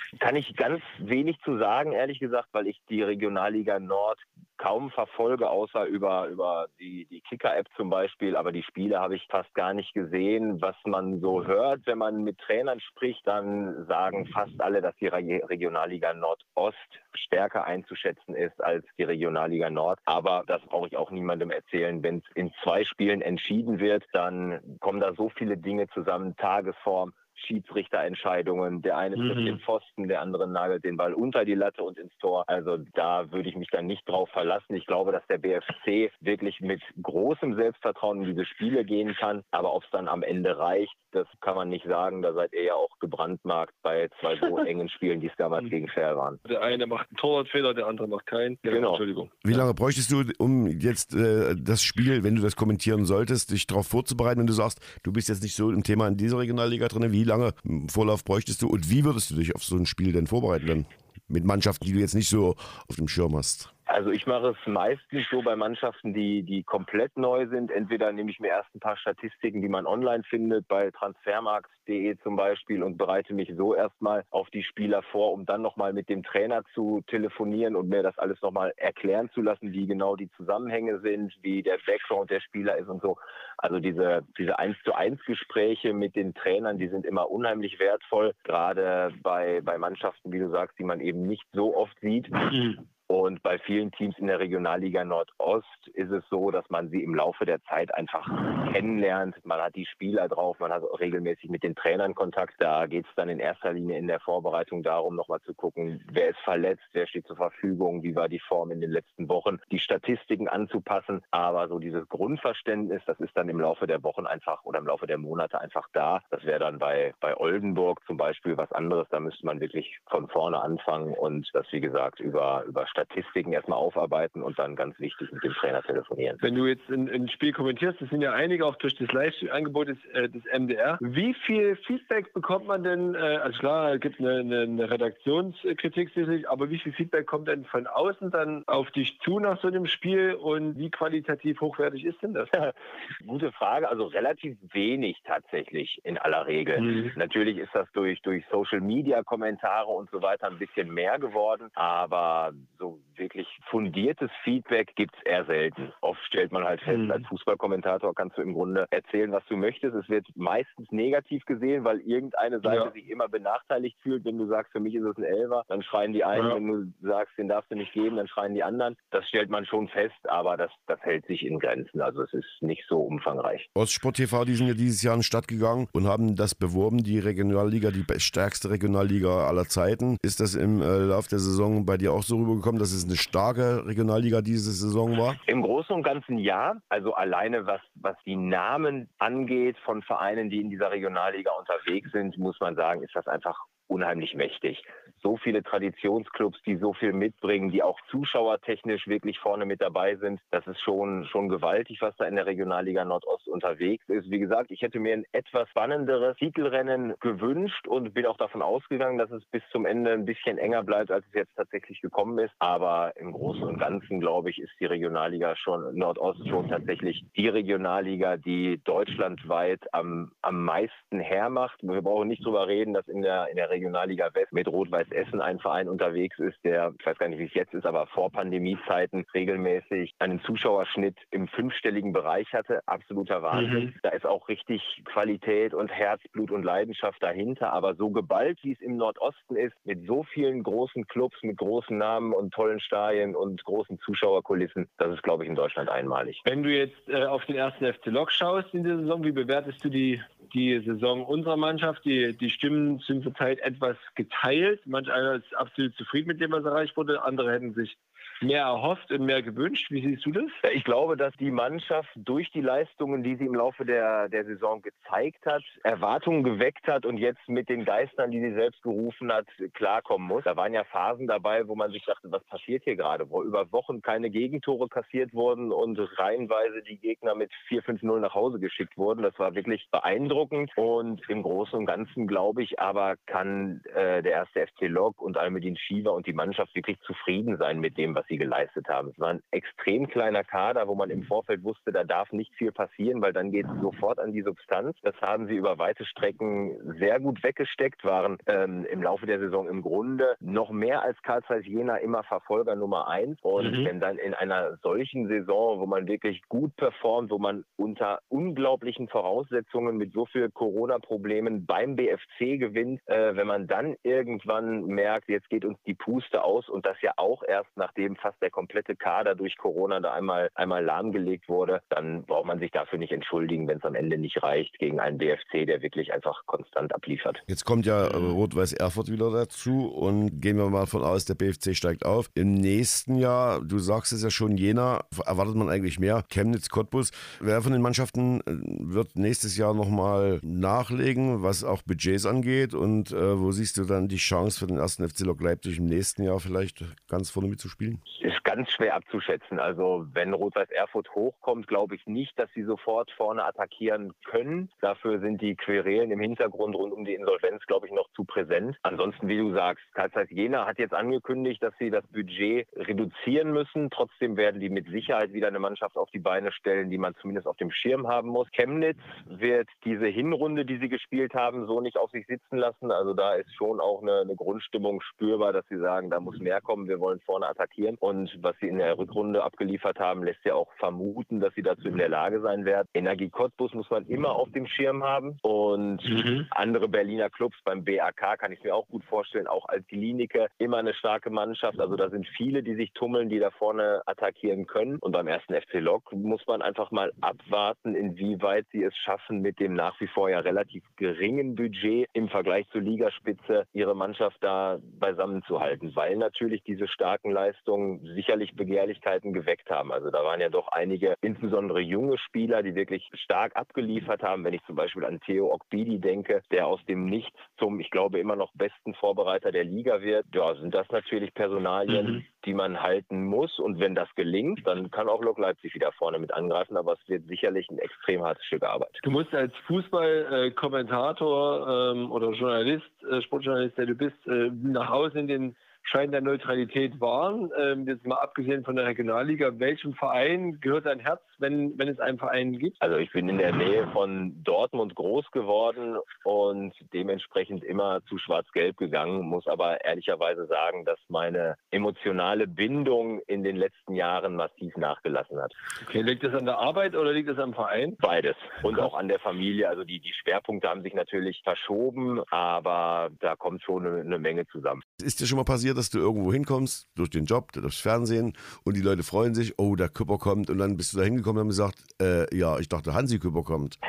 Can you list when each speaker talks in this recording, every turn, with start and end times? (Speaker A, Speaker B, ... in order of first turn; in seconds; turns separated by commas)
Speaker A: 0.2-46.4, Speaker B: 29.2-29.6, Speaker B: 46.5-49.6, Speaker A: 48.7-49.0, Speaker C: 49.4-63.7, Speaker A: 63.9-92.3, Speaker B: 92.5-92.8, Speaker A: 93.1-126.4, Speaker B: 126.4-142.5, Speaker A: 142.5-173.7, Speaker B: 146.8-147.1, Speaker B: 156.9-157.2, Speaker B: 162.6-162.9, Speaker B: 166.3-166.6, Speaker C: 173.7-185.4, Speaker A: 185.5-246.4, Speaker B: 233.5-233.9, Speaker B: 246.4-260.6, Speaker A: 260.6-327.4, Speaker B: 303.6-303.9, Speaker C: 327.5-348.0, Speaker B: 328.0-328.3, Speaker A: 348.2-428.9, Speaker B: 386.1-386.5, Speaker B: 421.9-422.2, Speaker B: 429.0-442.8, Speaker A: 442.8-455.5, Speaker B: 455.8-458.0, Speaker A: 458.0-464.8, Speaker C: 465.0-473.8